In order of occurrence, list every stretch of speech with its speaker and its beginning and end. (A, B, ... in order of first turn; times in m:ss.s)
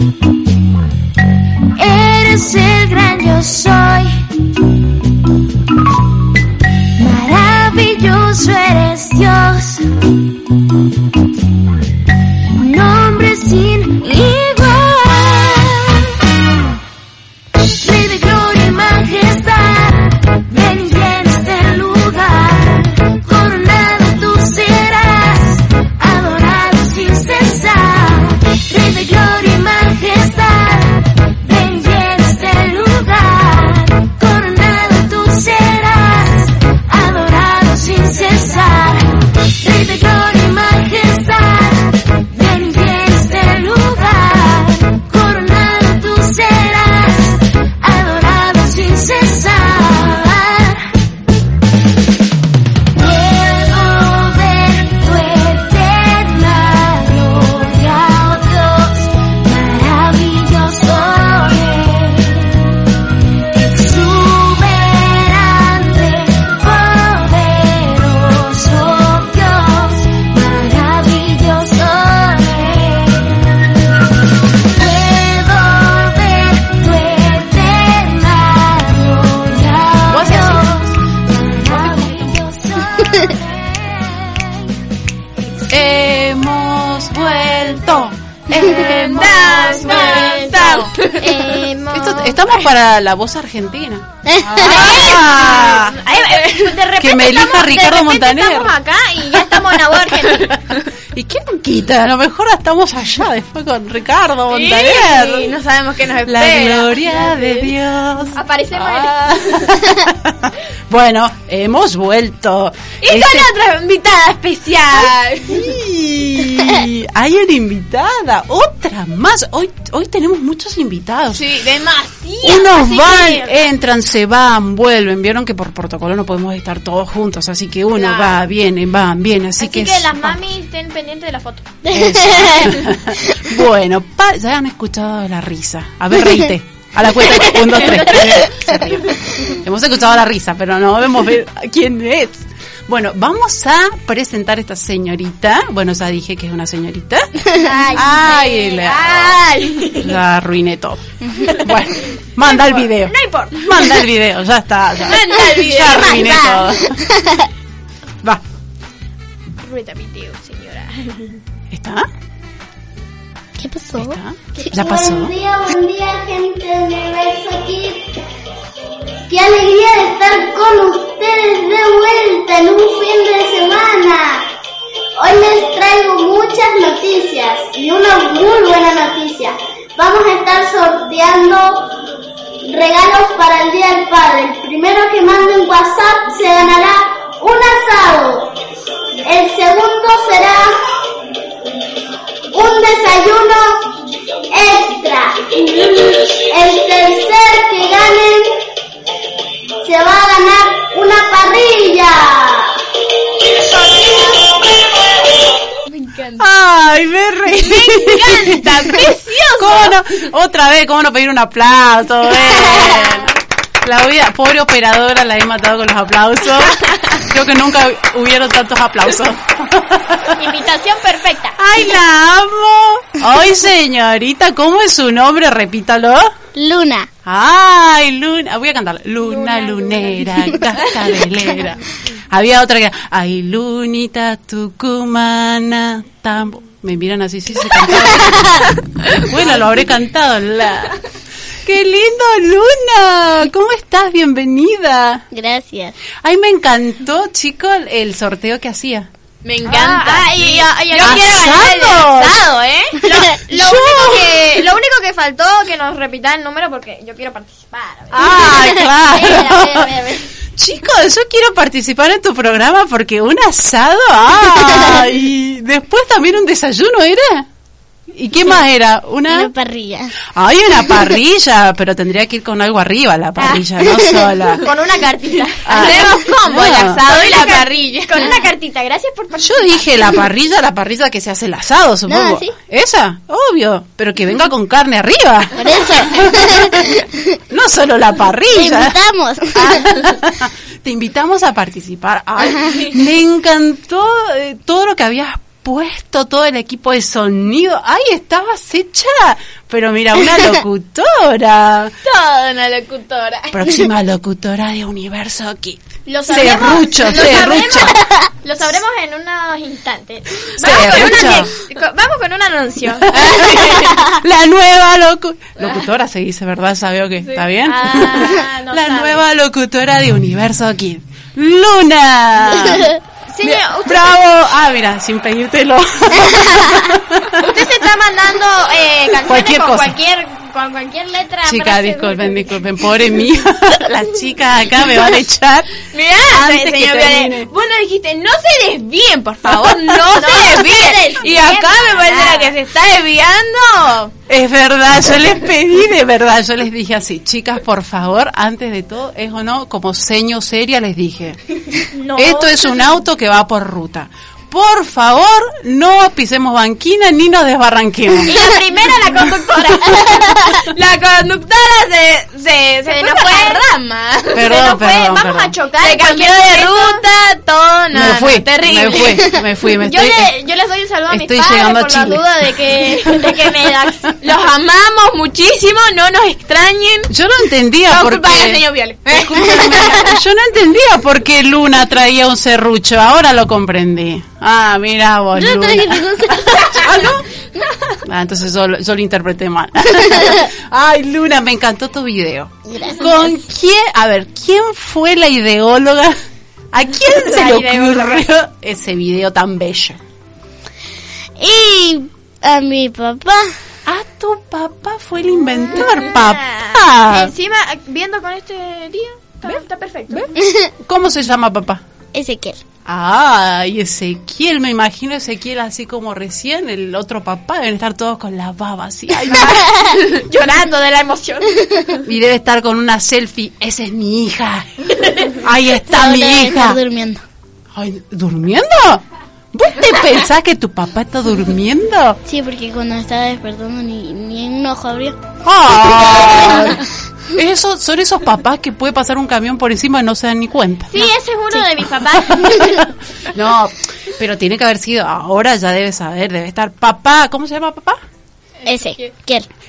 0:01.8-0:04.1 A
0:07.0-0:09.8 A
0:12.6-0:16.1 A
0:17.8-0:50.8 A
0:53.0-1:02.6 A
1:03.5-1:13.5 A
1:14.8-1:24.6 A
1:20.1-1:20.9 B
1:21.7-1:22.3 B
1:25.7-1:30.5 B
1:28.5-1:31.2 C
1:28.6-1:32.6 D
1:31.9-1:36.0 B
1:34.6-1:40.5 D
1:34.7-1:36.7 C
1:37.0-1:38.8 B
1:41.1-1:45.5 B
1:44.5-1:47.7 C
1:46.3-1:53.5 B
1:48.3-1:49.6 D
1:53.0-1:55.7 C
1:54.9-2:01.4 B
2:01.3-2:02.8 C
2:02.4-2:10.4 B
2:02.7-2:03.6 D
2:08.0-2:08.3 D
2:09.6-2:11.8 D
2:11.9-2:27.4 B
2:27.6-2:29.4 D
2:27.7-2:28.0 C
2:27.9-2:29.4 B
2:28.8-2:30.1 C
2:30.0-2:37.1 B
2:32.5-2:33.7 D
2:35.1-2:36.5 C
2:39.6-2:41.4 D
2:41.7-2:42.1 B
2:43.9-2:45.4 B
2:45.5-2:47.9 E
2:49.4-2:54.3 E
2:55.2-2:59.5 E
3:00.0-3:01.7 E
3:02.8-3:06.9 E
3:07.5-3:08.4 E
3:09.3-3:10.5 E
3:12.6-3:13.6 E
3:14.6-3:15.8 E
3:16.6-3:18.3 E
3:19.9-3:22.2 E
3:25.9-3:26.5 C
3:26.4-3:29.0 B
3:27.5-3:30.0 C
3:29.6-3:33.3 B
3:33.8-3:40.3 B
3:40.4-3:41.6 D
3:41.6-3:46.3 B
3:47.2-4:01.0 B
3:49.2-3:50.7 D
4:01.6-4:05.2 B
4:05.3-4:05.9 F
4:06.2-4:09.1 B
4:09.4-4:13.0 C
4:09.7-4:11.4 D
4:11.0-4:12.4 B
4:13.0-4:20.3 D
4:13.5-4:14.4 B
4:18.1-4:19.9 B
4:20.6-4:27.5 B
4:28.1-4:29.5 B
4:30.3-4:34.7 B
4:34.6-4:36.1 D
4:35.7-4:37.0 B
4:35.7-4:38.4 C
4:37.0-4:39.9 D
4:39.4-4:47.0 B
4:47.5-5:01.9 B
4:52.5-4:52.9 C
5:02.0-5:03.6 C
5:03.5-5:08.1 B
5:06.1-5:13.8 D
5:07.1-5:07.6 C
5:10.6-5:11.5 B
5:13.1-5:27.5 B
5:13.2-5:13.7 C
5:17.3-5:19.2 D
5:23.3-5:24.2 D
5:27.4-5:32.6 D
5:29.2-5:30.0 B
5:31.4-5:37.5 B
5:35.9-5:44.1 C
5:39.5-5:40.2 B
5:40.1-5:42.5 D
5:44.3-5:51.4 B
5:51.9-5:52.8 D
5:52.2-5:58.4 B
5:58.3-6:00.4 D
6:00.5-6:04.5 C
6:02.8-6:03.6 D
6:04.3-6:05.5 B
6:04.4-6:07.0 D
6:05.8-6:09.3 C
6:07.9-6:10.3 B
6:09.8-6:14.1 D
6:11.1-6:12.3 B
6:14.2-6:17.1 C
6:17.1-6:27.3 B
6:17.9-6:20.1 C
6:28.1-6:36.2 B
6:36.7-6:40.0 B
6:37.2-6:38.2 D
6:43.9-6:47.3 B
6:46.0-6:50.2 D
6:49.4-6:51.8 B
6:52.8-6:59.7 B
6:59.3-7:01.7 D
7:02.1-7:06.8 B
7:06.0-7:06.8 F
7:07.7-7:12.2 B
7:15.4-7:21.0 B
7:20.9-7:22.8 D
7:22.3-7:28.0 B
7:28.7-7:29.1 C
7:28.7-7:29.4 F